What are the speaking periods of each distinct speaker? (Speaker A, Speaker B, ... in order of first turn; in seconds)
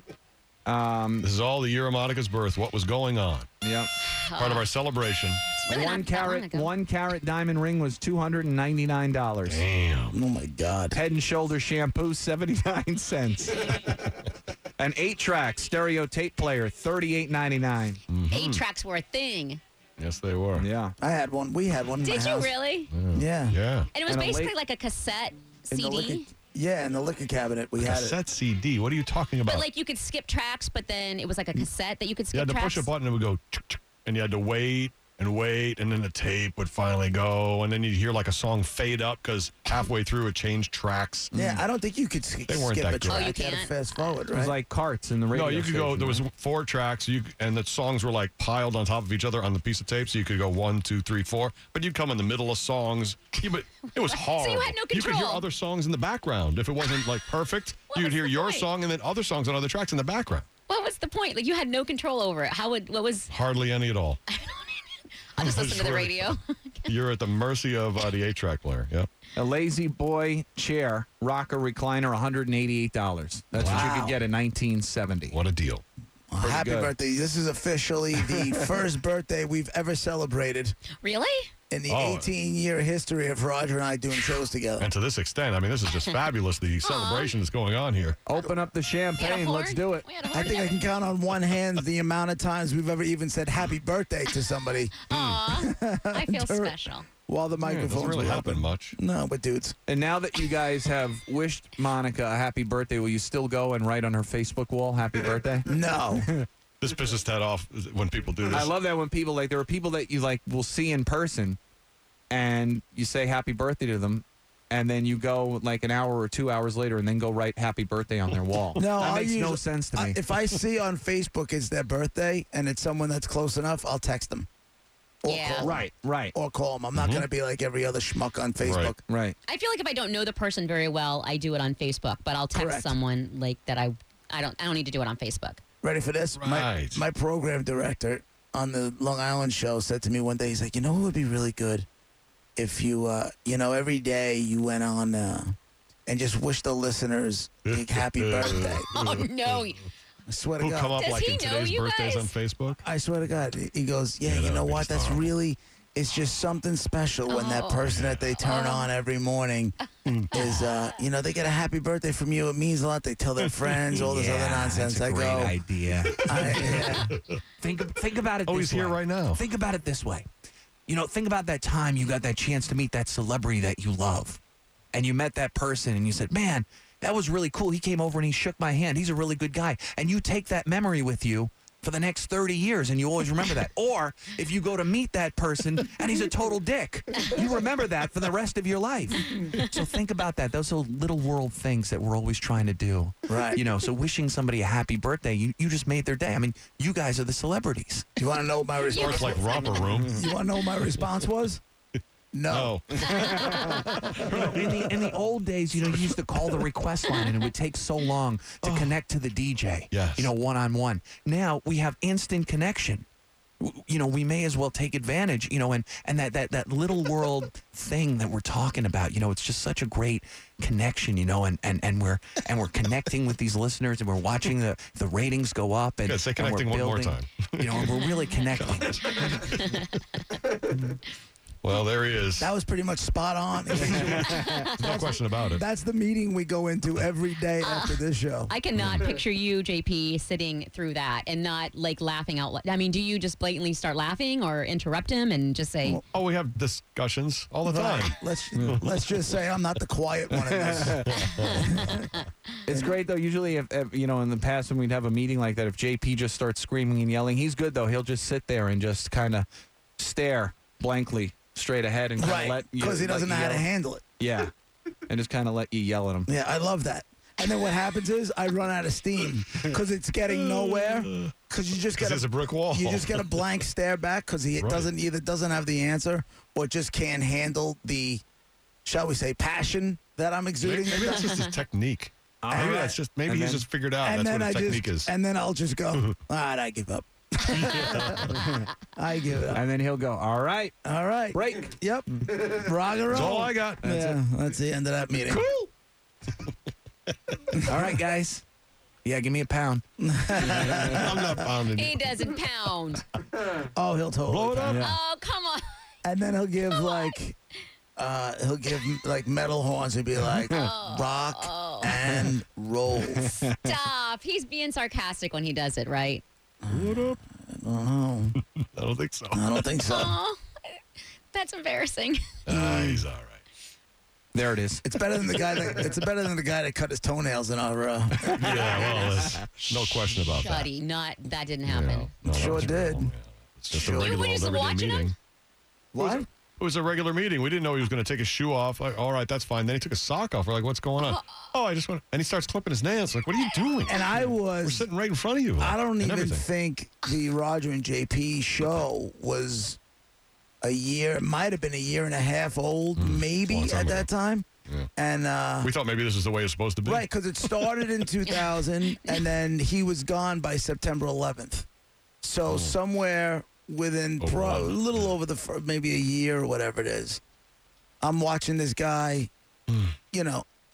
Speaker A: 0.7-1.3, 3.6-3.9, 5.7-9.6, 10.9-13.9, 14.8-18.0, 20.6-20.9, 24.1-24.5, 41.3-41.6, 44.3-46.2, 69.3-75.3, 76.4-76.9, 78.3-78.6, 88.2-90.0, 99.9-105.7, 108.5-111.6, 112.3-120.2, 125.6-126.3, 129.1-129.3, 164.0-166.9, 167.6-170.3, 170.9-174.4, 174.9-198.1, 203.1-213.1, 213.6-229.2, 234.1-234.6, 250.5-251.1, 252.7-259.4, 260.0-263.6, 264.2-264.5, 265.1-266.3, 282.4-283.7, 289.5-290.7, 291.3-291.7, 293.8-294.2, 295.3-295.7, 297.6-298.4, 299.0-299.8, 300.4-301.0, 304.6-304.9, 313.1-313.7, 324.3-324.8, 328.4-329.5
Speaker B: 1.2-3.5, 4.4-5.4, 9.4-10.2, 18.1-18.6, 20.0-20.6, 22.9-23.9, 27.8-29.6, 32.3-41.3, 42.5-43.2, 45.3-60.5, 63.3-64.2, 65.4-66.3, 66.9-69.1, 73.5-73.9, 75.3-75.8, 81.9-82.3, 84.8-88.2, 95.1-95.4, 97.6-99.0, 106.8-108.7, 126.9-127.2, 128.6-128.9, 136.4-137.0, 147.7-149.7, 150.6-152.8, 154.2-155.3, 157.8-158.3, 160.1-160.3, 166.3-167.4, 168.4-169.4, 198.9-200.2, 202.5-204.8, 209.9-210.3, 226.0-229.8, 231.6-232.5, 234.0-235.6, 246.1-248.2, 251.1-251.7, 270.3-271.3, 271.9-273.4, 274.6-274.9, 280.6-285.1, 287.5-288.4, 293.1-293.8, 300.5-302.1, 304.3-304.9, 316.7-317.2, 318.6-319.6, 322.4-323.4, 328.3-330.7, 331.7-335.1, 335.9-344.1, 344.6-346.4, 353.0-354.1, 355.6-357.1, 362.5-362.7, 364.2-365.1, 369.7-369.9
Speaker C: 4.1-4.7, 5.6-6.7, 18.3-19.6, 22.0-22.9, 23.9-26.3, 29.4-32.9, 43.1-43.9, 54.0-55.4, 57.9-58.7, 60.7-63.3, 64.3-66.9, 81.0-81.5, 86.8-87.3, 89.2-90.9, 95.1-97.1, 125.2-125.7, 129.5-135.6, 148.4-149.8, 151.0-152.3, 157.3-158.9, 160.3-160.9, 198.9-200.0, 234.4-234.7, 237.6-246.0, 251.4-251.7, 301.7-303.0, 304.8-305.6, 306.7-307.1, 310.5-312.0, 313.6-316.2, 319.8-320.8, 321.3-322.2, 330.1-332.2, 333.8-335.1, 341.0-341.4, 358.2-359.2
Speaker D: 10.1-11.0, 21.0-22.5, 23.1-23.6, 25.7-28.2, 41.3-44.5, 73.6-74.2, 76.3-80.8, 81.7-84.9, 90.3-99.8, 105.7-106.3, 118.8-124.5, 125.2-129.0, 132.5-132.9, 135.8-141.8, 142.6-145.6, 146.1-148.9, 150.3-151.0, 152.8-159.7, 160.3-165.6, 166.2-167.2, 193.3-193.6, 198.2-201.6, 202.3-203.2, 232.4-238.5, 247.6-252.1, 252.7-252.9, 262.2-264.0, 266.3-278.2, 278.8-281.4, 282.5-283.0, 284.0-288.4, 288.9-289.6, 290.8-295.4, 300.0-301.5, 303.7-304.8, 306.0-307.4, 307.9-313.4, 316.6-318.4, 319.3-320.2, 322.5-323.0, 324.8-329.0, 332.2-333.1, 333.7-334.1, 335.9-336.2, 343.9-344.9, 345.6-349.8, 350.6-355.7, 356.8-361.7, 362.2-367.2, 368.0-369.3, 370.1-370.4